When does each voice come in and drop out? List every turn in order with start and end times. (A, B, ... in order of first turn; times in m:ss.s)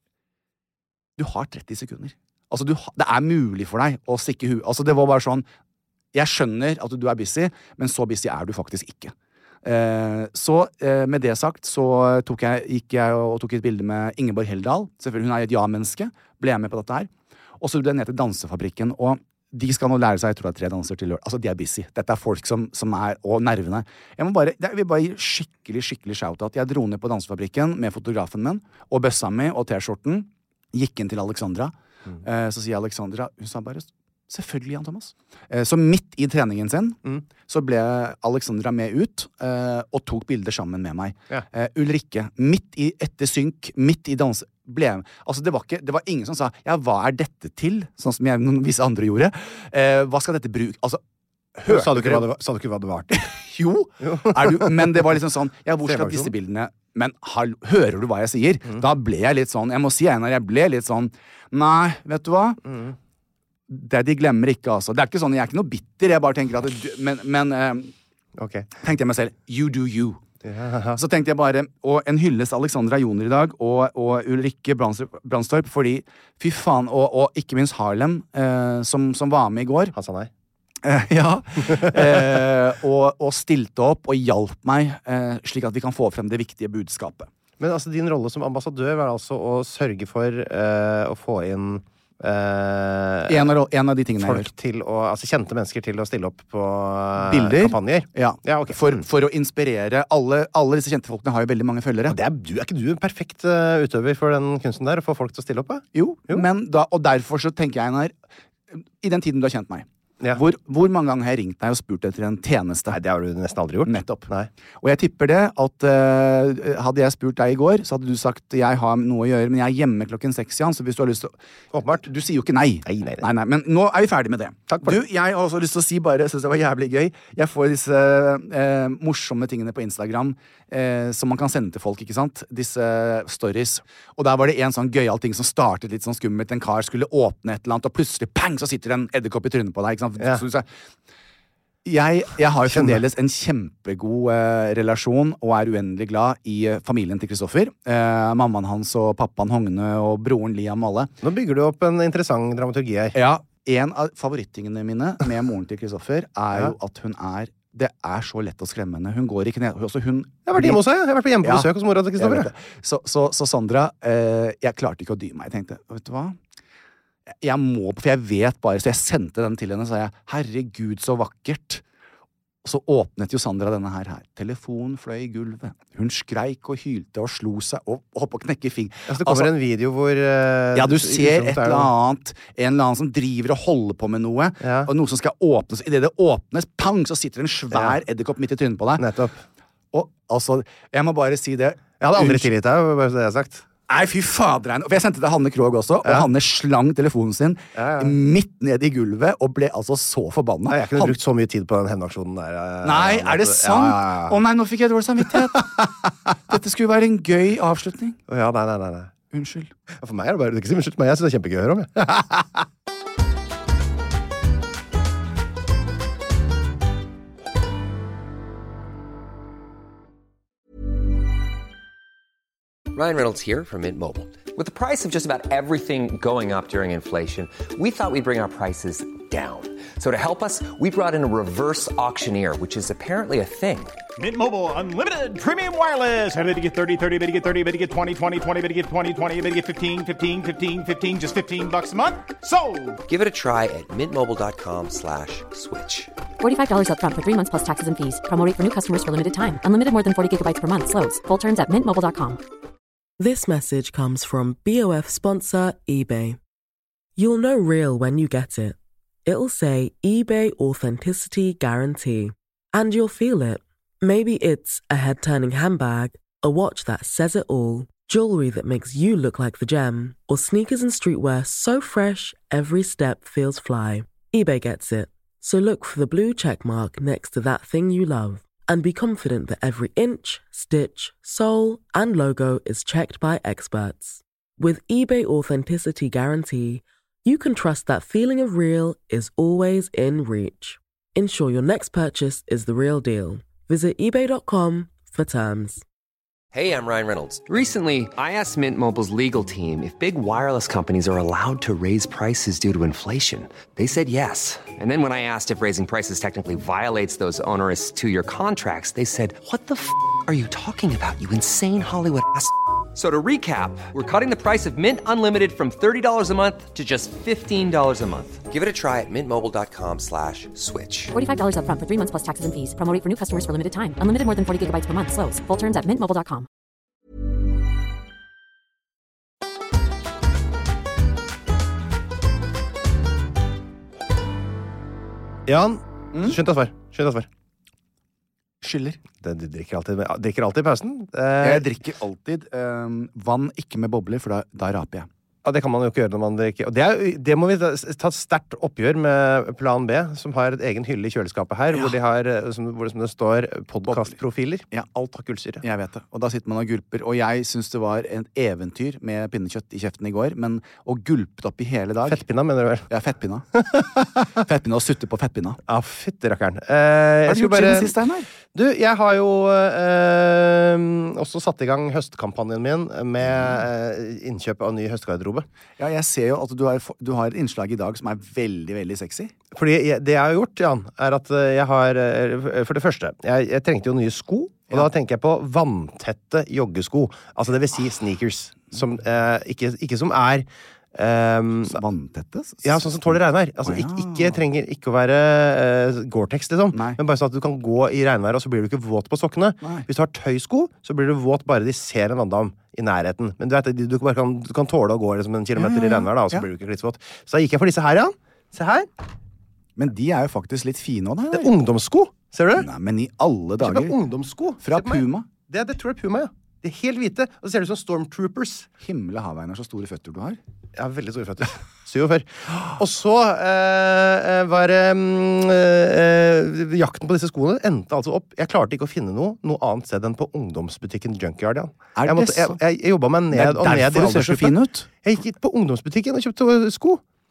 0:01.2-0:05.4 A
0:06.1-0:51.0 A
0:51.6-0:52.3 A
0:51.7-0:53.3 B
0:53.1-1:02.6 A
0:54.0-0:55.1 B
0:55.8-0:56.3 B
1:02.7-1:02.9 B
1:03.7-1:07.9 A
1:08.4-1:08.7 B
1:08.8-1:10.2 A
1:10.4-1:11.0 B
1:10.9-1:19.9 A
1:19.9-1:20.3 B
1:20.8-1:27.3 A
1:21.7-1:22.2 B
1:27.6-1:33.5 B
1:33.3-1:34.5 A
1:34.2-1:39.0 B
1:37.2-1:42.2 A
1:42.1-1:46.4 B
1:45.9-1:48.1 A
1:48.7-1:53.0 A
1:52.9-1:54.5 B
1:53.8-2:01.3 A
2:01.7-2:02.1 B
2:02.0-2:20.6 A
2:02.8-2:03.3 B
2:04.7-2:05.0 B
2:21.8-2:31.1 A
2:22.7-2:23.0 B
2:31.2-2:33.2 B
2:33.1-2:40.8 A
2:40.5-2:42.5 B
2:41.4-2:46.4 A
2:47.4-2:51.8 A
2:52.6-2:59.5 A
2:59.1-3:01.9 B
3:00.7-3:09.1 A
3:04.6-3:04.9 B
3:07.7-3:08.0 B
3:09.0-3:09.4 B
3:09.9-3:12.5 A
3:12.0-3:13.7 B
3:13.9-3:21.1 A
3:17.8-3:18.2 B
3:20.7-3:24.4 B
3:22.8-3:28.2 A
3:28.3-3:29.1 B
3:29.3-3:29.7 A
3:29.9-3:32.6 B
3:42.9-3:54.0 C
3:54.2-4:03.0 D
4:03.0-4:06.1 C
4:06.4-4:12.4 E
4:13.2-4:16.4 F
4:17.2-4:55.8 F
4:56.5-5:21.1 C
5:21.1-5:26.5 E
5:35.5-5:37.3 B
5:38.6-5:39.0 A
5:39.2-5:41.7 B
5:41.4-5:45.1 A
5:45.4-5:55.6 B
5:53.9-5:54.1 A
5:55.6-6:02.2 A
6:02.0-6:02.9 B
6:02.9-6:03.6 A
6:03.5-6:04.3 B
6:04.3-6:05.6 A
6:05.7-6:07.9 B
6:07.2-6:08.3 A
6:08.5-6:15.5 B
6:15.8-6:19.3 A
6:19.5-6:31.8 B
6:31.7-6:34.4 A
6:32.6-6:48.9 B
6:36.7-6:37.0 A
6:39.6-6:39.9 A
6:45.6-6:46.4 A
6:49.8-6:51.5 A
6:51.3-6:52.7 B
6:52.6-6:54.0 A
6:53.6-6:58.7 B
6:54.6-6:55.2 A
6:58.8-7:00.4 A
7:00.8-7:17.0 B
7:12.0-7:12.6 A
7:13.3-7:14.9 A